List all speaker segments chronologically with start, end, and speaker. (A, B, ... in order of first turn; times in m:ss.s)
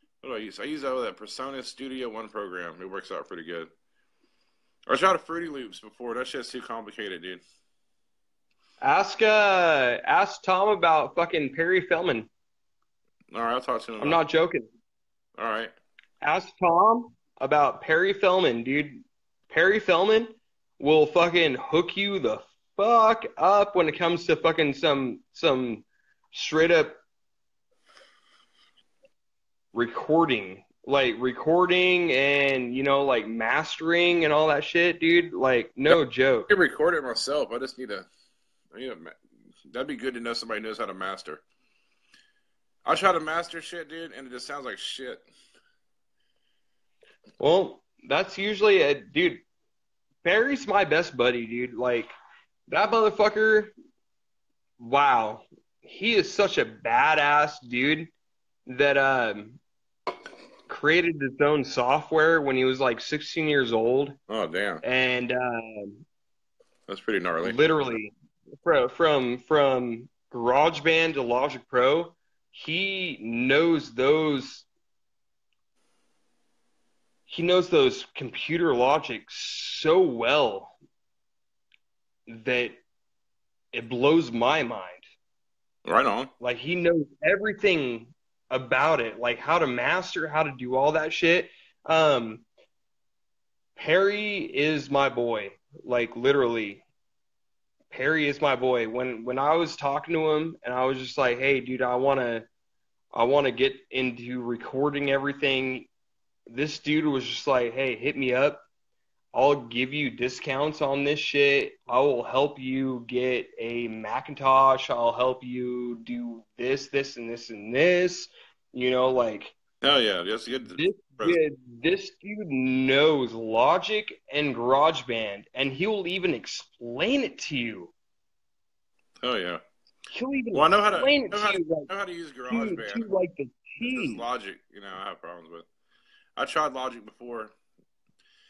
0:00.2-0:03.7 A
0:04.9-0:07.4 A
0:08.8-0:12.3 B
0:13.3-0:14.2 A
0:14.0-0:14.7 B
0:15.4-0:15.7 A
0:16.2-0:27.0 B
0:29.7-0:36.5 B
0:35.9-0:38.1 A
0:38.7-0:41.4 A
0:42.8-0:45.2 A
0:47.4-0:49.4 B
0:50.2-0:52.1 B
0:52.7-0:53.7 B
0:54.8-0:58.1 B
0:58.6-0:59.6 B
1:00.7-1:04.2 B
1:04.3-1:04.8 A
1:04.8-1:06.0 B
1:06.9-1:07.6 A
1:07.4-1:14.7 B
1:17.3-1:20.7 B
1:22.3-1:22.8 B
1:23.7-1:25.1 B
1:25.8-1:26.3 A
1:26.4-1:32.4 B
1:33.8-1:36.8 B
1:37.9-1:42.5 B
1:43.1-1:45.9 B
1:46.5-1:48.6 B
1:49.3-1:59.6 B
1:59.8-2:01.4 A
2:00.7-2:07.9 B
2:09.2-2:09.6 A
2:10.1-2:11.9 B
2:10.5-2:13.0 A
2:12.5-2:14.2 B
2:13.8-2:15.7 A
2:16.4-2:17.5 A